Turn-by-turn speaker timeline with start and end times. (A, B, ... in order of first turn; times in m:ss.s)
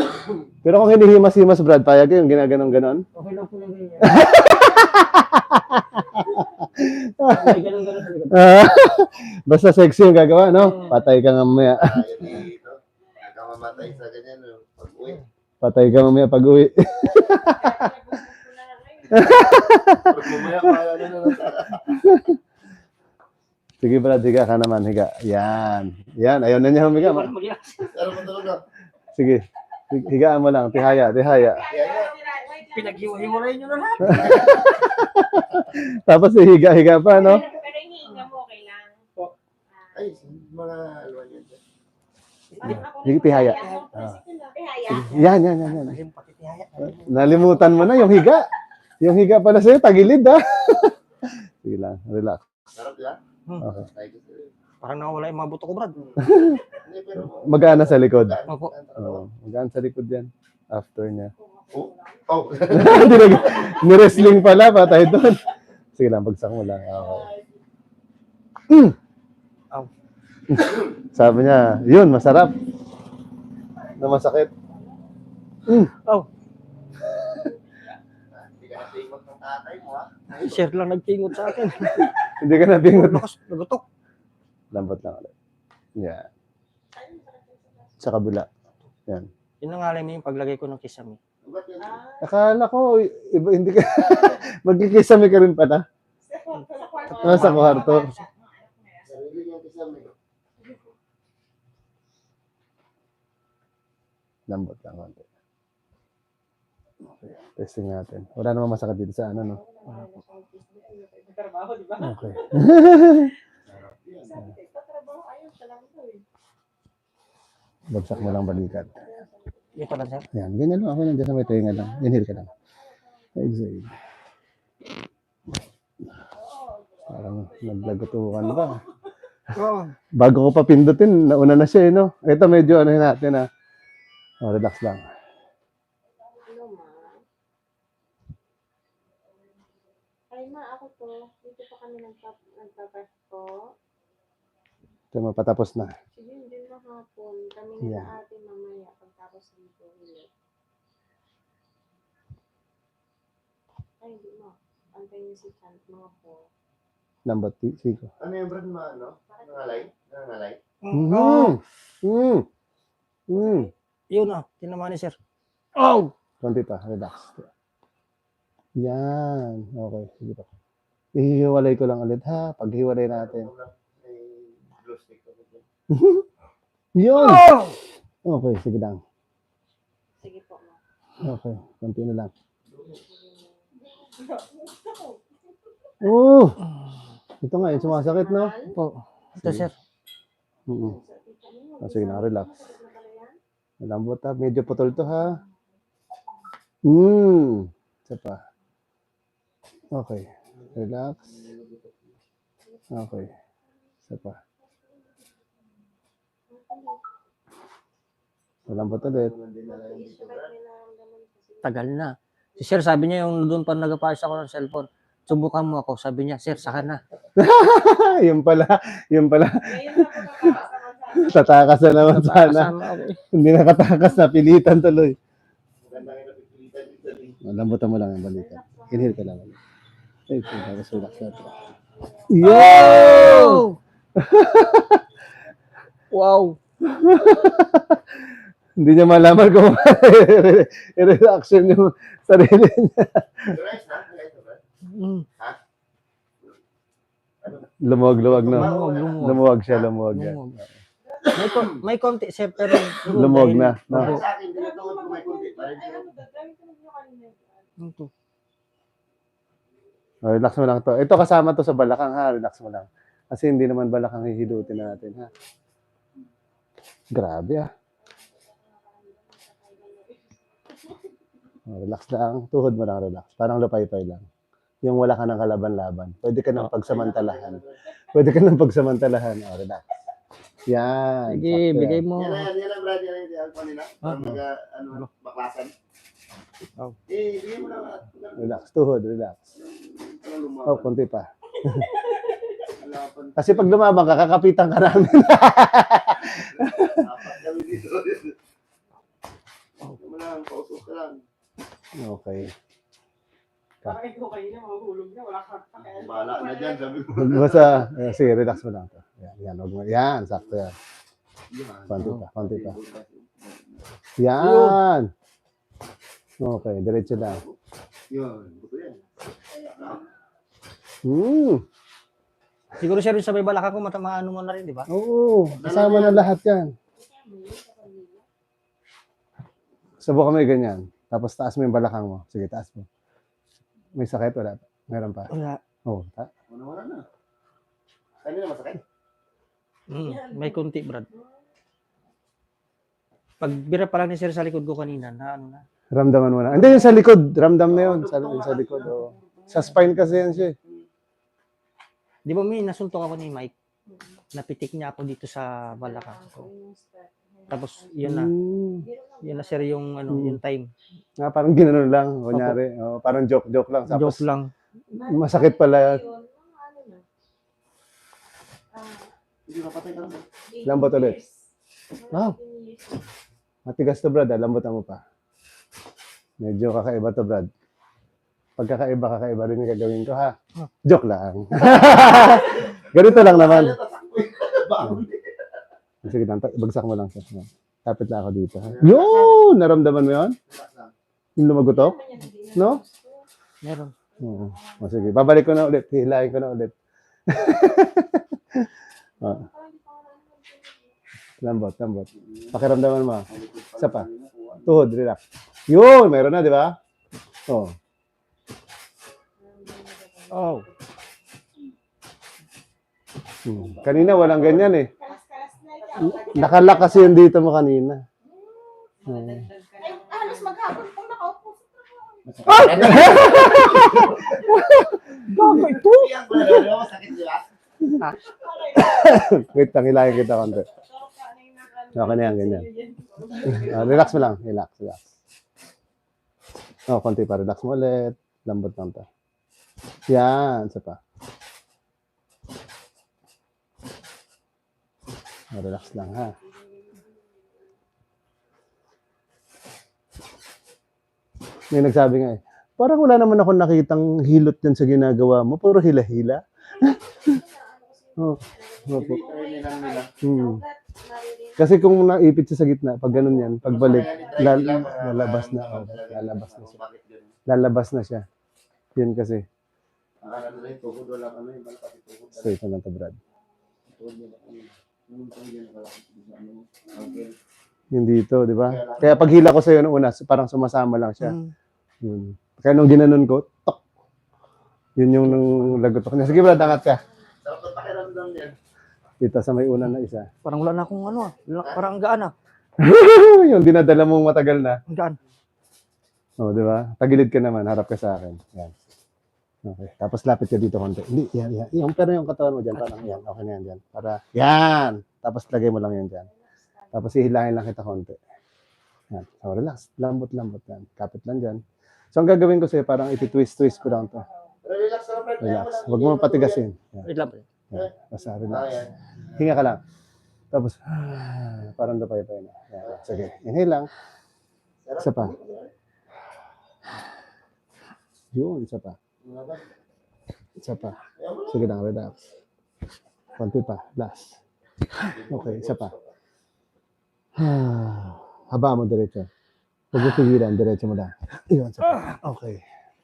0:00.6-0:03.0 A
0:03.1-0:04.3 B
0:04.0-0:07.6 A
0:07.2-0:08.5 B
0:08.3-0:12.4 A
0:10.6-0:11.0 B
0:11.6-0:15.2 C
0:15.6-0:18.0 A
0:17.1-0:19.7 D
0:19.1-0:20.9 A
0:20.0-0:22.0 C
0:21.9-0:22.4 A
0:23.8-0:27.3 A
0:26.9-0:27.9 B
0:27.9-0:28.6 C
0:29.1-0:31.7 A
0:31.2-0:34.5 D
0:31.6-0:32.2 C
0:32.7-0:34.6 B
0:34.0-0:37.4 A
0:37.1-0:39.0 D
0:39.7-0:40.1 D
0:39.9-0:41.6 C
0:42.5-0:42.9 B
0:42.6-0:45.4 D
0:42.6-0:44.2 A
0:43.5-0:43.9 B
0:44.9-0:46.0 A
0:45.4-0:47.1 B
0:46.9-0:48.5 A
0:49.0-0:50.9 A
0:51.6-0:52.4 A
0:52.7-0:53.2 C
0:53.6-0:53.9 A
0:53.8-0:54.5 C
0:54.8-0:56.0 B
0:56.0-0:59.2 C
0:56.2-0:56.6 A
0:57.2-0:58.4 A
0:59.0-1:01.3 A
1:01.3-1:02.9 D
1:01.7-1:04.8 C
1:02.7-1:05.4 A
1:03.5-1:03.8 D
1:06.0-1:07.3 A
1:07.0-1:07.4 D
1:08.7-1:09.0 A
1:10.5-1:12.5 A
1:14.0-1:14.5 A
1:15.7-1:15.9 A
1:15.9-1:16.3 B
1:18.3-1:20.7 C
1:20.4-1:23.8 B
1:22.0-1:23.2 A
1:24.7-1:25.3 A
1:26.0-1:26.3 A
1:26.9-1:28.0 D
1:28.0-1:28.5 A
1:29.6-1:31.2 B
1:31.4-1:32.0 C
1:31.8-1:32.2 D
1:32.2-1:35.8 A
1:36.2-1:39.0 D
1:36.7-1:37.9 E
1:37.1-1:38.2 B
1:37.2-1:38.1 A
1:39.0-1:40.1 C
1:44.5-1:45.2 A
1:47.2-1:49.6 A
1:49.3-1:51.6 D
1:51.3-1:52.7 E
1:52.0-1:53.3 A
1:52.5-1:53.1 D
1:53.6-1:54.5 C
1:54.2-1:56.2 D
1:57.9-1:59.0 A
1:58.1-1:58.8 C
1:58.9-1:59.8 D
1:59.7-2:00.2 B
2:00.3-2:02.5 A
2:01.4-2:03.5 D
2:03.4-2:03.9 A
2:06.3-2:08.8 D
2:07.1-2:08.8 A
2:09.5-2:09.9 B
2:10.2-2:13.5 A
2:14.4-2:15.1 A
2:16.2-2:17.2 D
2:20.3-2:23.7 D
2:25.1-2:25.9 A
2:26.1-2:30.3 D
2:27.8-2:28.1 A
2:34.0-2:36.5 D
2:37.2-2:38.1 A
2:38.2-2:40.6 C
2:39.3-2:39.9 D
2:40.8-2:41.6 B
2:40.9-2:42.4 A
2:43.3-2:43.7 A
2:43.4-2:43.7 D
2:44.1-2:45.2 B
2:45.8-2:46.1 B
2:46.4-2:47.5 A
2:48.8-2:50.5 A
2:51.1-2:53.5 A
2:53.1-2:55.6 C
2:55.9-2:56.2 A
2:56.9-2:57.6 A
2:57.1-2:57.7 B
2:58.2-2:59.0 A
3:00.2-3:00.8 D
3:01.2-3:02.3 A
3:02.6-3:03.0 C
3:03.1-3:05.2 D
3:06.0-3:06.6 A
3:07.4-3:08.6 A
3:07.6-3:08.8 D
3:08.7-3:09.7 B
3:09.4-3:09.7 A
3:10.7-3:11.0 A
3:10.7-3:13.4 D
3:11.8-3:12.5 A
3:13.8-3:15.4 A
3:14.7-3:15.6 D
3:16.8-3:18.4 A
3:19.9-3:21.2 A
3:21.2-3:22.2 C
3:22.9-3:23.3 A
3:24.1-3:24.4 A
3:26.5-3:27.0 D
3:28.7-3:29.3 A
3:28.7-3:30.5 C
3:29.7-3:31.8 D
3:31.6-3:37.0 B
3:37.4-3:42.7 A
3:39.6-3:41.6 D
3:42.0-3:43.2 B
3:43.3-3:45.2 A
3:45.8-3:47.4 C
3:47.4-3:49.6 A
3:48.3-3:49.2 D
3:50.3-3:51.6 A
3:50.4-3:52.7 D
3:52.3-3:55.0 A
3:52.4-3:53.8 B
3:56.1-3:56.6 B
3:56.8-3:58.0 A
3:58.8-4:03.6 A
4:03.5-4:04.6 C
4:04.9-4:05.2 B
4:07.4-4:09.9 C
4:07.8-4:10.7 A
4:08.4-4:09.4 B
4:10.1-4:10.6 B
4:11.1-4:11.4 D
4:11.2-4:11.8 C
4:11.3-4:14.2 B
4:12.7-4:13.4 C
4:13.1-4:14.2 A
4:13.9-4:16.1 C
4:14.4-4:17.7 D
4:17.8-4:18.1 B
4:20.2-4:25.3 A
4:24.4-4:25.4 D
4:27.1-4:27.7 A
4:28.0-4:30.9 D
4:31.7-4:34.2 A
4:34.8-4:37.6 A
4:36.8-4:37.8 C
4:38.1-4:39.8 A
4:40.7-4:42.0 A
4:41.3-4:42.5 B
4:42.1-4:45.7 C
4:44.0-4:44.4 B
4:47.1-4:48.6 C
4:48.4-4:49.4 A
4:49.8-4:50.9 C
4:50.6-4:51.9 A
4:52.7-4:53.8 C
4:53.4-4:57.0 A
4:56.3-4:58.3 C
4:59.9-5:01.2 C
5:02.0-5:02.5 A
5:03.8-5:06.7 E
5:05.8-5:07.9 C
5:06.3-5:06.9 D
5:07.1-5:10.7 A
5:11.5-5:13.9 C
5:11.9-5:12.8 A
5:14.2-5:15.1 A
5:14.4-5:14.8 B
5:16.4-5:17.4 A
5:17.1-5:17.6 C
5:18.1-5:19.0 C
5:19.7-5:20.0 C
5:21.0-5:21.6 A
5:22.8-5:24.9 B
5:24.9-5:26.7 A
5:25.6-5:26.3 C
5:27.0-5:28.2 D
5:30.0-5:32.9 A
5:34.0-5:35.3 A
5:35.3-5:35.6 B
5:35.8-5:36.3 A
5:36.5-5:37.0 C
5:38.2-5:38.8 C
5:39.9-5:41.1 B
5:40.0-5:41.2 D
5:43.4-5:45.6 B
5:45.9-5:50.6 A
5:46.5-5:46.9 B
5:47.6-5:49.0 C
5:50.6-5:50.8 C
5:52.2-5:53.5 B
5:53.9-5:54.2 D
5:54.3-5:56.5 B
5:55.7-5:59.8 D
5:57.5-5:58.3 B
5:58.0-5:58.8 A
5:59.2-6:00.7 B
6:00.1-6:00.4 A
6:01.2-6:04.2 A
6:02.3-6:02.6 B
6:03.9-6:04.5 B
6:04.9-6:06.0 A
6:04.9-6:07.0 D
6:08.7-6:09.1 D
6:09.5-6:10.2 C
6:10.5-6:11.4 D
6:10.6-6:11.2 A
6:12.0-6:13.0 D
6:12.1-6:12.4 A
6:13.6-6:15.0 A
6:16.4-6:17.5 A
6:18.6-6:23.8 A
6:21.6-6:25.6 C
6:26.0-6:30.4 A
6:28.6-6:29.5 C
6:30.5-6:30.9 C
6:31.4-6:32.0 A
6:31.6-6:33.2 D
6:32.5-6:32.8 A
6:33.6-6:33.9 B
6:34.2-6:35.2 D
6:34.2-6:36.7 A
6:37.3-6:38.7 A
6:39.2-6:40.9 D
6:41.4-6:44.0 A
6:42.2-6:42.6 C
6:43.3-6:44.8 C
6:44.6-6:46.8 A
6:47.5-6:47.7 A
6:49.4-6:50.6 D
6:50.3-6:50.7 B
6:53.4-6:54.9 A
6:53.5-6:54.8 C
6:55.0-6:57.2 D
6:55.8-6:56.7 E
6:56.0-6:58.0 A
6:58.3-7:00.6 E
6:59.0-6:59.4 A
6:59.8-7:02.3 D
7:02.3-7:04.5 C
7:02.4-7:05.6 A
7:02.5-7:03.8 B
7:05.3-7:06.6 B
7:05.6-7:07.4 C
7:08.2-7:14.2 D
7:08.7-7:10.7 A
7:11.9-7:12.7 A
7:13.2-7:14.0 E
7:13.4-7:15.1 A
7:16.9-7:19.0 A
7:20.1-7:21.0 A
7:25.5-7:26.4 A
7:26.2-7:27.3 D
7:31.7-7:37.3 A
7:36.8-7:41.7 D
7:38.2-7:39.2 A
7:38.9-7:40.1 C
7:40.2-7:40.6 A
7:41.6-7:46.8 A
7:43.1-7:44.8 D
7:43.6-7:47.3 C
7:47.5-7:48.2 A
7:49.0-7:49.4 A
7:50.2-7:52.6 C
7:52.4-7:53.2 A
7:53.9-7:57.3 C
7:57.9-8:01.4 A
7:58.6-7:59.4 C
8:01.2-8:01.5 B
8:02.0-8:03.8 A
8:05.0-8:07.0 A
8:06.2-8:06.8 C
8:07.4-8:08.6 C
8:09.2-8:10.3 A
8:10.4-8:12.3 B
8:12.8-8:14.8 A
8:14.9-8:15.2 B
8:16.4-8:18.7 A
8:19.6-8:26.3 A
8:22.7-8:23.2 B
8:26.4-8:27.0 D
8:26.9-8:28.2 A
8:29.1-8:31.6 A
8:32.1-8:34.2 A
8:33.3-8:34.5 D
8:34.6-8:36.6 C
8:35.4-8:37.1 A
8:37.0-8:37.5 B
8:37.7-8:38.8 A
8:38.5-8:39.4 C
8:39.4-8:39.8 A
8:40.5-8:43.9 A
8:42.8-8:43.2 C
8:44.8-8:45.7 C
8:45.0-8:45.3 A
8:48.3-8:49.0 A
8:49.2-8:49.7 C
8:50.6-8:52.2 A
8:51.1-8:51.7 C
8:53.4-8:54.4 A
8:55.1-8:56.1 C
8:55.3-8:55.9 A
8:57.4-8:59.3 A
8:59.9-9:02.6 A